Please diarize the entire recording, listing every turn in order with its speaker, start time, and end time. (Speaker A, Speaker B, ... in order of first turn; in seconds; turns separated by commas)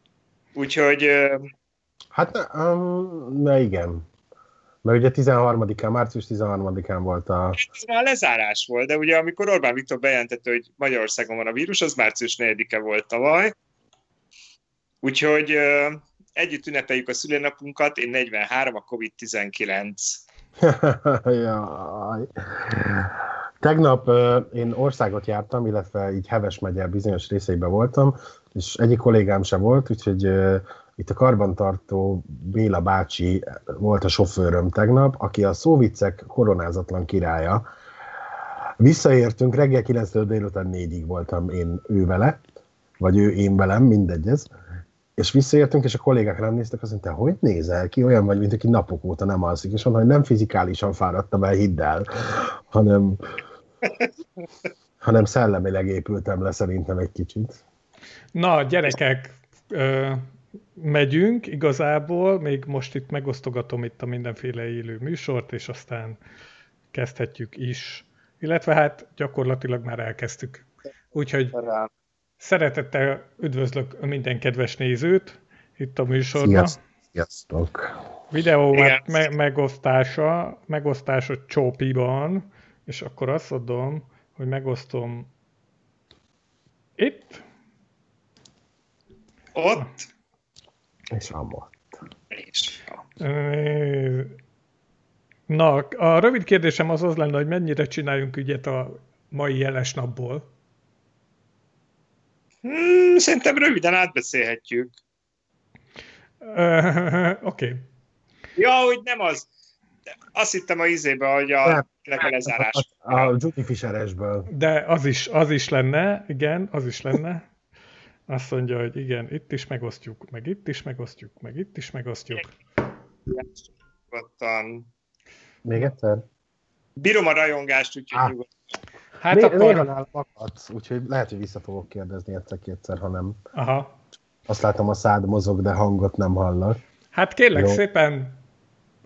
Speaker A: 0.5-1.5, Speaker B: 2.1-4.0, Speaker B: 4.8-7.6, Speaker A: 7.5-13.5, Speaker A: 15.0-20.2, Speaker B: 20.6-37.6, Speaker B: 38.8-42.4, Speaker B: 43.0-44.5, Speaker B: 45.1-53.2, Speaker B: 55.0-57.6, Speaker C: 58.3-66.2, Speaker C: 66.9-71.5, Speaker A: 71.5-71.9, Speaker C: 72.4-76.8, Speaker B: 76.4-77.9, Speaker C: 78.3-85.3, Speaker A: 78.7-79.1, Speaker C: 87.0-87.4, Speaker A: 89.5-89.9, Speaker B: 91.1-91.8, Speaker A: 92.3-93.0, Speaker C: 93.2-94.3, Speaker C: 95.5-100.5, Speaker A: 102.6-104.9, Speaker C: 106.4-107.8, Speaker A: 108.6-109.5, Speaker A: 110.3-113.3, Speaker B: 111.6-114.5, Speaker C: 114.5-117.5, Speaker C: 118.3-122.5, Speaker A: 123.3-124.9, Speaker B: 125.6-126.2, Speaker A: 127.0-128.5, Speaker C: 129.2-129.9, Speaker B: 129.3-133.4, Speaker C: 133.5-133.9, Speaker B: 134.5-136.8, Speaker C: 137.1-138.4, Speaker B: 137.5-137.8